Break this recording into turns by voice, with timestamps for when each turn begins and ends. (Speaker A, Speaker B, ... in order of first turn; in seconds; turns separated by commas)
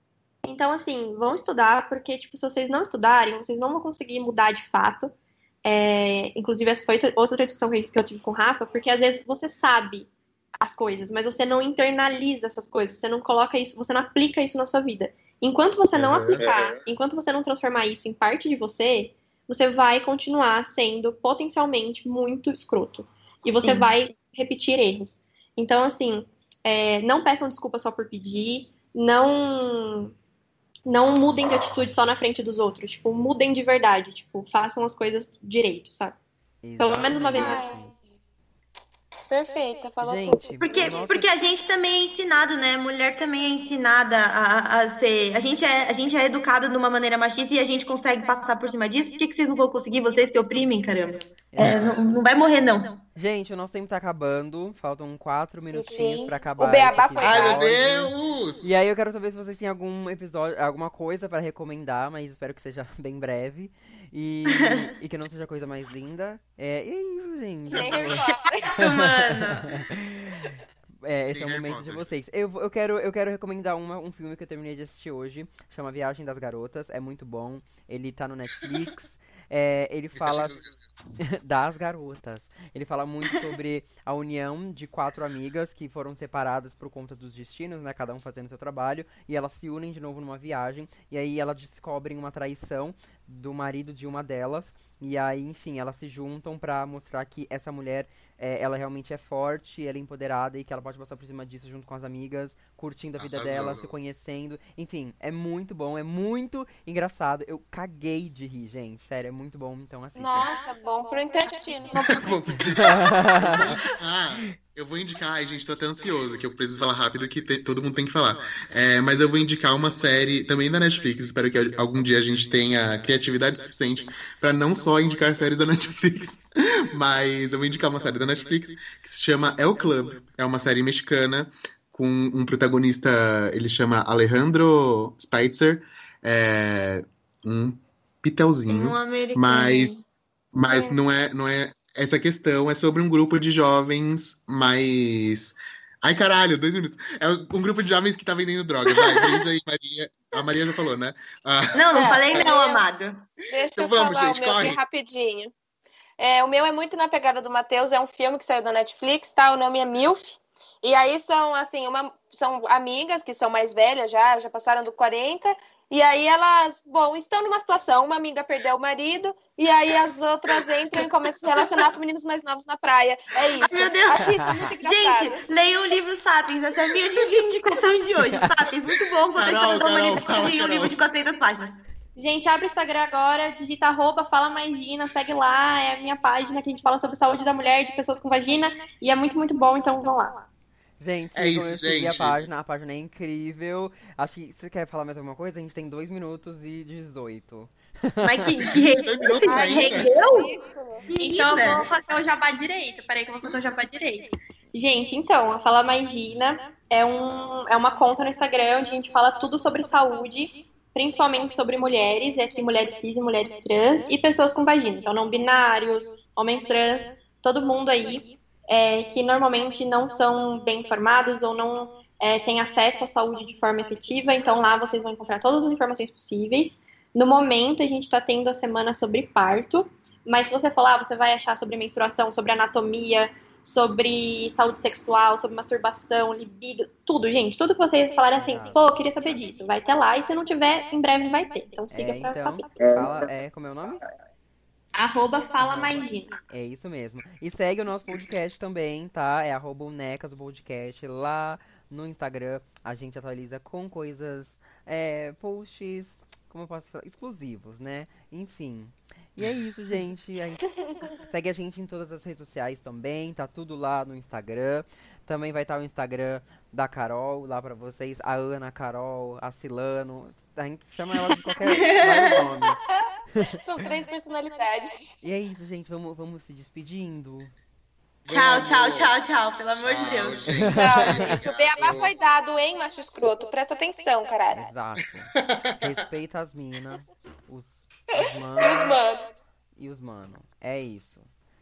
Speaker A: 0.4-30.1, Speaker B: 15.9-16.5, Speaker A: 30.9-36.1, Speaker C: 36.6-37.9, Speaker A: 36.8-37.7, Speaker D: 37.3-37.8, Speaker D: 39.3-41.0, Speaker C: 40.0-41.3, Speaker E: 40.6-53.0, Speaker C: 51.5-51.9, Speaker B: 51.6-52.0, Speaker C: 53.1-110.5, Speaker D: 55.6-57.7, Speaker B: 57.2-58.7, Speaker D: 67.7-68.8, Speaker E: 68.6-69.7, Speaker B: 71.3-72.1, Speaker B: 80.2-80.8, Speaker B: 103.2-103.9, Speaker D: 110.2-113.2, Speaker B: 111.9-152.5, Speaker C: 112.6-113.7, Speaker E: 138.7-140.1, Speaker E: 140.6-141.0, Speaker E: 148.9-149.4, Speaker E: 151.7-153.3, Speaker D: 151.9-152.8, Speaker D: 153.5-155.5, Speaker B: 153.5-154.8, Speaker D: 156.2-175.4, Speaker E: 171.5-171.9, Speaker E: 173.6-181.8, Speaker C: 174.2-174.7, Speaker B: 179.3-181.0, Speaker A: 182.2-190.4, Speaker C: 191.0-198.6, Speaker B: 191.3-192.4, Speaker E: 198.2-200.5, Speaker B: 198.7-200.1, Speaker D: 199.4-201.1, Speaker E: 201.1-201.8, Speaker A: 201.1-243.0, Speaker C: 238.3-238.9, Speaker C: 241.9-244.0, Speaker A: 244.9-246.4, Speaker C: 245.6-272.8, Speaker E: 271.6-272.3, Speaker D: 273.5-275.2, Speaker C: 275.2-277.5, Speaker B: 278.2-279.1, Speaker E: 278.3-280.5, Speaker B: 279.8-282.1, Speaker C: 280.5-281.4, Speaker D: 280.7-284.7, Speaker C: 284.5-289.0, Speaker B: 285.4-285.8, Speaker D: 288.6-289.3, Speaker C: 289.8-291.3